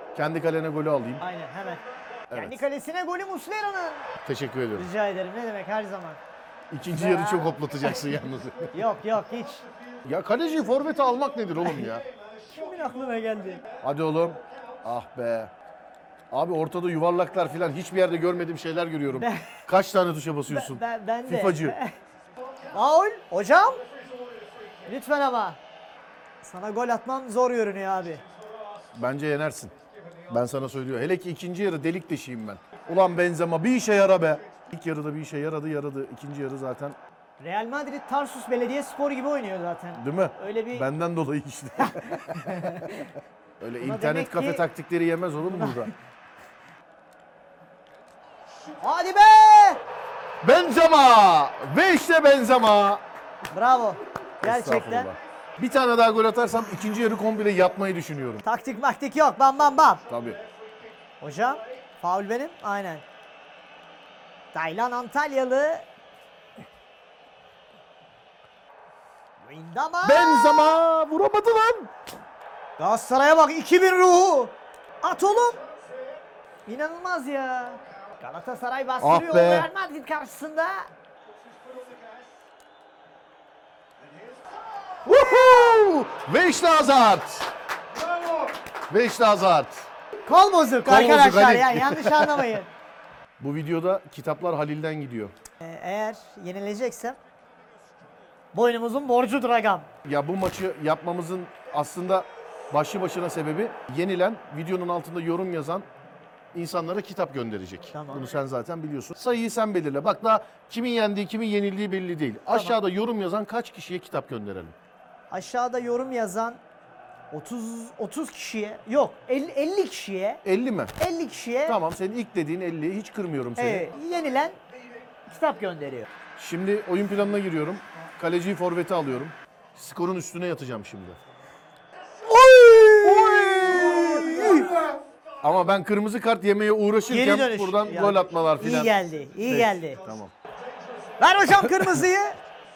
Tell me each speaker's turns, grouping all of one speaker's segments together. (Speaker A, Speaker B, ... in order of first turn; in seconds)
Speaker A: 0.1-1.2, 2.3-2.6, 4.2-4.9, 6.7-8.7, 10.0-12.1, 13.8-15.5, 16.3-21.8, 28.9-29.8, 30.3-37.0, 40.0-42.9, 43.6-45.9, 50.4-53.0, 54.4-58.4, 60.1-60.4, 70.0-71.9, 79.0-79.7, 85.0-87.5, 88.9-89.9, 90.8-92.5, 93.4-95.3, 100.0-105.9, 106.5-114.7, 120.4-121.0, 121.7-123.9, 126.4-131.2, 133.0-134.7, 135.4-140.3
Speaker B: 1.2-4.1, 4.8-6.2, 6.8-7.7, 8.7-9.6, 12.4-13.7, 19.1-19.6, 20.5-22.0, 22.7-23.9, 24.8-25.6, 26.4-28.2, 37.4-40.9, 42.2-43.0, 43.8-44.6, 45.4-45.9, 48.8-49.8, 53.5-55.1, 58.4-60.0, 61.2-63.0, 64.5-65.9, 69.4-70.8, 72.8-75.6, 76.7-80.9, 90.2-92.7, 95.6-97.2, 98.5-99.9, 107.9-108.3, 115.3-116.6, 117.3-120.4, 121.0-121.8, 123.6-124.6, 125.3-126.1, 132.2-134.7, 137.1-140.0, 141.2-142.4